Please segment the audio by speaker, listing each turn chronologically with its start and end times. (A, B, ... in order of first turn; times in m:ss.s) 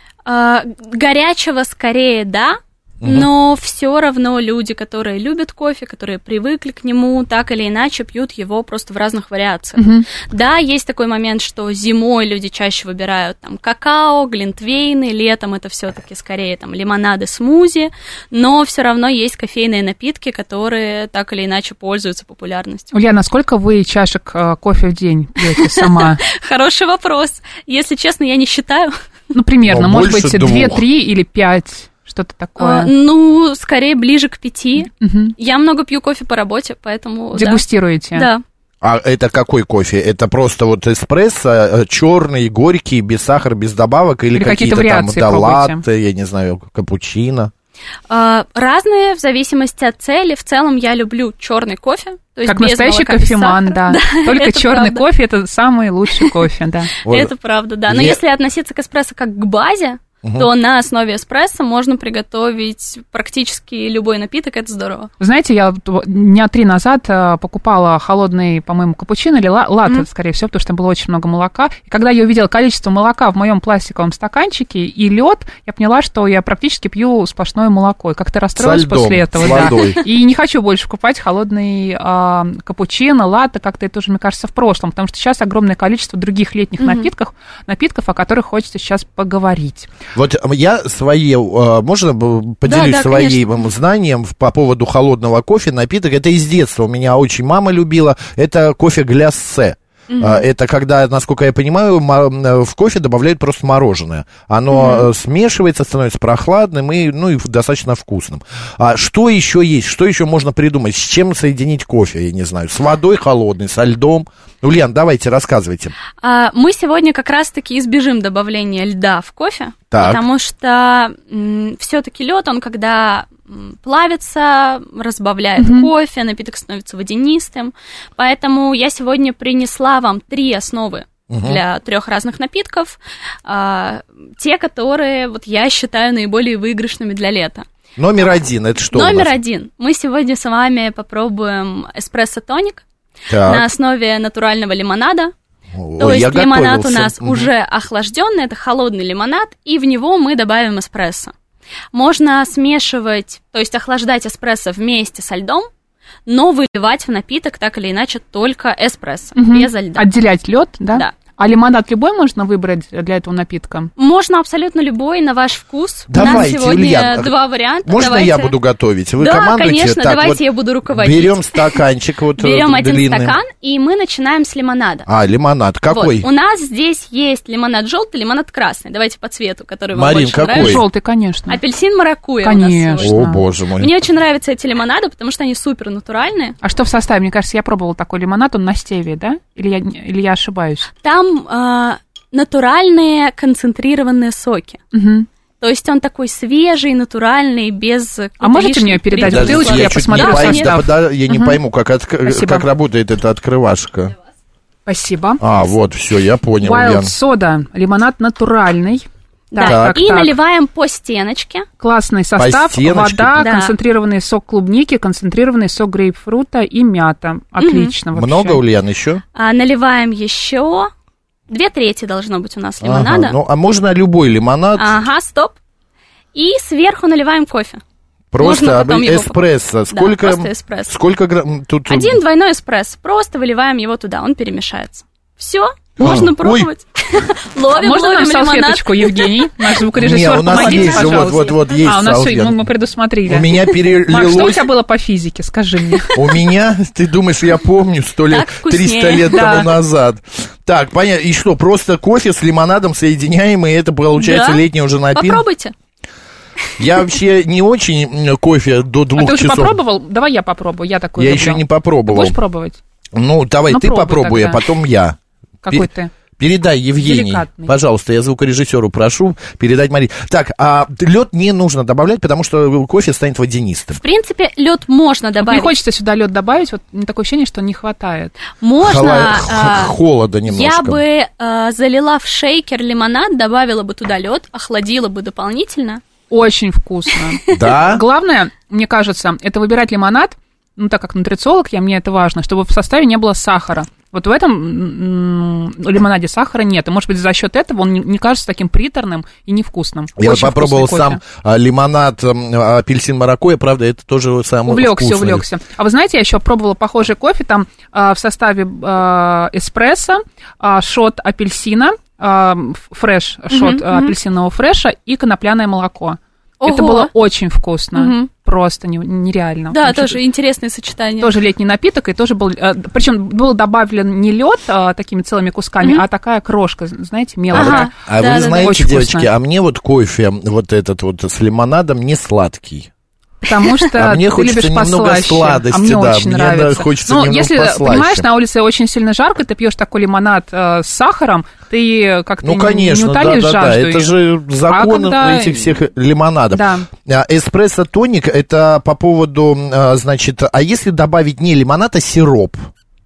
0:00.2-0:22.9 A
0:03.0-0:03.3 B
0:09.8-0:10.1 C
0:22.9-0:26.2 C
0:25.5-0:29.0 A
0:29.3-0:32.9 C
0:29.6-0:30.8 B
0:32.6-0:38.4 A
0:35.0-0:35.3 C
0:37.3-0:38.3 C
0:38.8-0:47.5 B
0:44.3-0:45.8 C
0:48.1-0:55.0 A
0:52.4-0:56.9 C
0:57.0-0:57.3 B
0:57.0-1:05.1 A
0:57.8-0:58.2 B
1:00.2-1:00.5 B
1:05.2-1:29.9 C
1:18.6-1:20.0 B
1:26.8-1:27.1 A
1:30.1-1:55.9 B
1:32.6-1:33.4 A
1:40.1-1:40.4 A
1:44.7-1:45.1 A
1:56.2-2:17.6 A
1:59.9-2:00.2 B
2:05.6-2:05.9 C
2:11.3-2:11.6 B
2:18.0-2:19.3 B
2:18.9-2:22.8 A
2:23.3-2:23.6 B
2:23.4-2:25.3 A
2:25.7-2:27.5 B
2:26.0-2:31.3 A
2:31.9-2:35.7 A
2:36.2-2:40.1 A
2:39.4-2:43.9 C
2:44.0-2:48.5 A
2:46.1-2:47.3 B
2:47.8-2:53.4 B
2:49.2-2:51.8 A
2:52.4-2:55.1 A
2:55.1-2:56.3 B
2:55.9-3:00.8 A
2:59.9-3:00.8 B
3:00.5-3:01.6 C
3:01.5-3:03.2 A
3:02.4-3:03.4 C
3:03.0-3:03.9 B
3:03.8-3:06.6 A
3:06.6-3:10.9 C
3:11.0-3:14.8 A
3:14.9-3:15.3 C
3:15.6-3:20.8 A
3:18.4-3:21.6 C
3:19.2-3:24.1 B
3:22.2-3:22.7 C
3:24.8-3:25.4 C
3:25.4-3:27.1 B
3:26.6-3:30.3 C
3:29.5-3:31.7 A
3:29.6-3:30.0 B
3:31.8-3:38.6 C
3:32.4-3:33.5 B
3:33.4-3:33.7 A
3:37.6-3:37.9 A
3:38.1-3:39.2 B
3:39.3-3:40.9 A
3:41.5-3:43.4 A
3:42.8-3:44.9 B
3:44.8-3:45.6 A
3:46.3-3:47.8 A
3:48.3-3:52.2 B
3:48.4-3:50.9 A
3:51.9-3:59.6 A
3:56.0-3:56.7 B
3:57.7-4:03.5 C
4:00.0-4:02.6 B
4:00.5-4:01.9 A
4:03.2-4:04.6 B
4:04.1-4:06.2 C
4:06.1-4:15.4 B
4:08.3-4:09.7 A
4:09.3-4:09.7 C
4:14.2-4:14.6 A
4:15.1-4:15.7 A
4:16.8-4:19.8 B
4:19.2-4:22.8 C
4:21.2-4:22.4 B
4:23.1-4:25.9 B
4:23.7-4:24.6 C
4:25.6-4:26.1 C
4:26.4-4:34.0 B
4:27.0-4:27.7 C
4:33.9-4:35.7 A
4:35.4-4:38.4 C
4:38.6-4:39.9 A
4:38.8-4:41.0 B
4:40.4-4:46.0 A
4:46.3-5:01.2 C
4:47.5-4:48.0 B
5:00.2-5:05.4 B
5:04.7-5:20.2 C
5:13.5-5:14.1 A
5:16.6-5:17.1 A
5:17.9-5:18.3 A
5:19.7-5:21.3 A
5:21.2-5:29.3 C
5:27.5-5:28.8 A
5:27.5-5:32.9 B
5:33.4-5:44.1 C
5:33.9-5:38.2 B
5:42.4-5:52.7 B
5:44.7-5:45.8 C
5:46.5-5:46.9 C